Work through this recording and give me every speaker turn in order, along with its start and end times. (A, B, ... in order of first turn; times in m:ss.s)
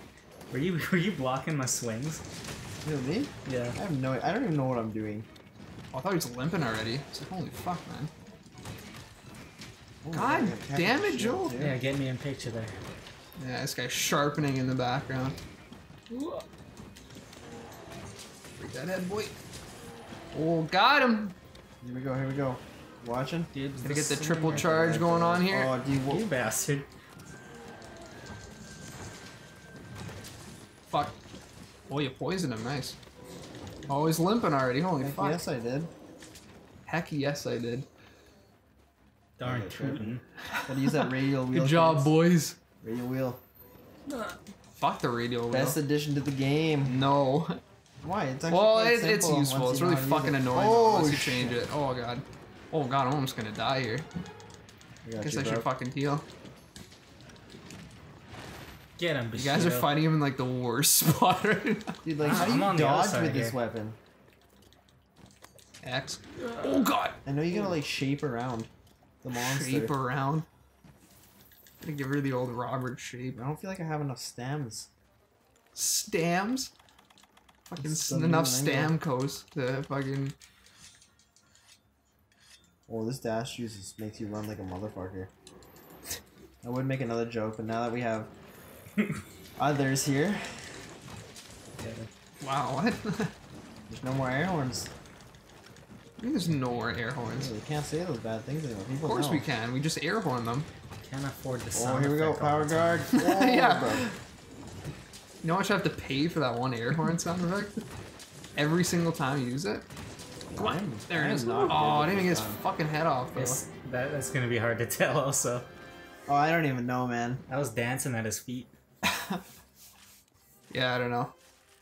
0:00.5-0:02.2 A
0:02.8-0:05.3 B
0:03.5-0:03.8 A
0:05.9-0:08.1 C
0:10.0-0:11.8 B
0:10.1-0:11.5 C
0:11.6-0:12.8 A
0:13.4-0:15.4 C
0:18.6-0:19.3 C
0:20.3-0:21.4 C
0:21.8-0:23.5 B
0:23.5-0:24.9 A
0:23.8-0:25.7 C
0:24.6-0:26.3 B
0:26.1-0:26.9 A
0:30.9-0:31.2 C
0:31.9-0:33.0 C
0:33.9-0:35.4 C
0:35.0-0:35.9 B
0:36.9-0:37.9 C
0:39.4-0:40.2 A
0:39.4-0:42.2 B
0:40.5-0:42.6 C
0:42.8-0:43.4 B
0:44.1-0:44.4 A
0:44.8-0:45.8 C
0:45.5-0:47.0 B
0:46.8-0:47.6 C
0:48.0-0:51.6 B
0:48.5-0:54.1 C
0:55.0-0:55.7 B
0:55.2-0:56.2 C
0:59.0-1:00.0 A
0:59.4-1:02.5 C
1:02.0-1:04.0 B
1:02.2-1:03.6 A
1:05.8-1:07.2 C
1:06.4-1:06.9 A
1:07.3-1:08.7 B
1:09.2-1:09.9 B
1:09.3-1:10.5 C
1:11.8-1:13.4 C
1:13.4-1:14.9 B
1:15.8-1:16.7 C
1:17.7-1:20.4 C
1:17.8-1:19.0 B
1:22.9-1:25.3 B
1:26.6-1:28.3 B
1:29.6-1:30.7 B
1:31.8-1:32.1 A
1:32.4-1:33.3 C
1:33.9-1:34.9 B
1:36.2-1:37.5 C
1:37.3-1:39.5 B
1:39.0-1:40.7 C
1:41.0-1:43.1 A
1:41.7-1:44.1 B
1:43.2-1:44.2 C
1:45.4-1:47.8 C
1:48.6-1:49.9 C
1:50.6-1:52.6 B
1:50.6-1:53.6 C
1:53.4-1:55.7 A
1:56.3-1:57.4 B
1:57.5-1:58.7 A
2:00.7-2:01.3 C